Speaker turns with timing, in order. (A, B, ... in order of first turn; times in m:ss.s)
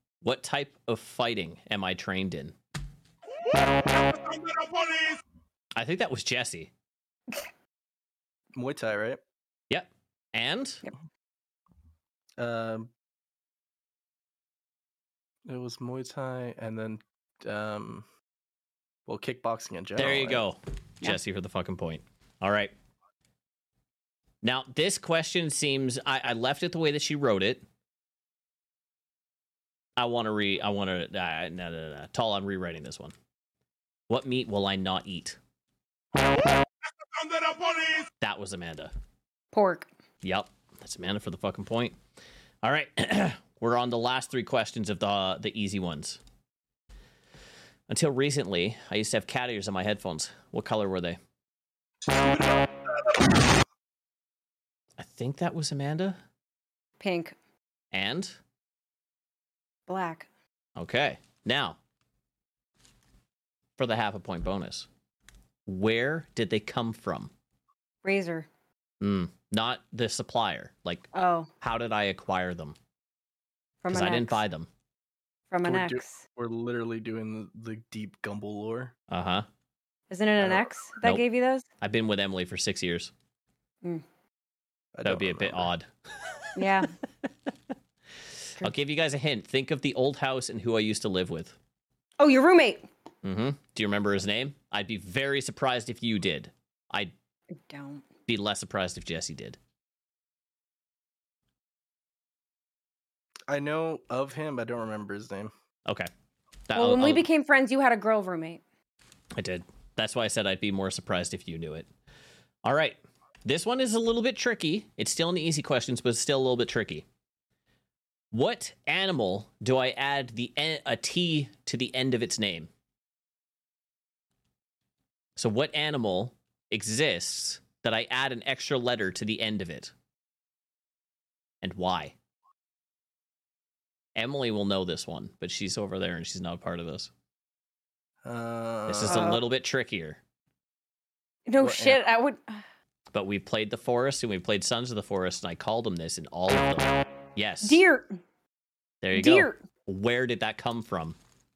0:00.2-0:02.6 A
0:05.8-0:06.7 A
0:08.6-0:09.2 B
0:09.7-0:10.8 A
0:12.4-0:12.9 B
0:15.5-0:18.0 B
0:19.1-0:20.4 B
0:20.0-0:22.7 A
0:24.4-0:27.6 A
0:30.0-0:33.1 A
0:34.1-0:35.4 A
0:37.6-0:38.9 A
0:39.5-0:39.9 C
0:40.2-0:42.0 A
0:42.6-0:46.2 A
0:47.9-0:51.2 A
0:55.0-0:56.2 A
0:57.0-0:57.4 C
0:57.9-0:58.4 A
0:59.9-1:00.3 C
1:00.8-1:01.8 A
1:03.8-1:04.9 A
1:05.6-1:07.3 A
1:08.0-1:08.5 C
1:09.0-1:11.1 A
1:11.1-1:11.5 C
1:11.6-1:12.8 A
1:13.8-1:14.4 C
1:13.9-1:14.7 A
1:15.5-1:16.2 C
1:15.6-1:18.9 B
1:19.1-1:19.5 A
1:20.1-1:21.6 C
1:21.8-1:23.1 A
1:24.9-1:25.7 B
1:25.0-1:26.7 A
1:26.6-1:26.9 C
1:28.6-1:31.6 A
1:32.2-1:32.9 C
1:33.2-1:37.1 A
1:37.6-1:38.0 C
1:38.3-1:39.6 A
1:43.5-1:45.5 B
1:46.7-1:47.2 A
1:46.8-1:48.6 C
1:49.3-1:51.9 A
1:52.6-1:57.1 A
1:58.3-2:02.7 A
2:05.4-2:09.9 A
2:11.6-2:12.1 A
2:14.1-2:17.1 A
2:18.2-2:19.3 B
2:18.9-2:20.2 A
2:19.1-2:19.4 C
2:21.5-2:22.6 C
2:21.6-2:22.0 B
2:23.1-2:27.8 A
2:27.6-2:28.2 C
2:29.0-2:31.2 A
2:29.1-2:29.6 C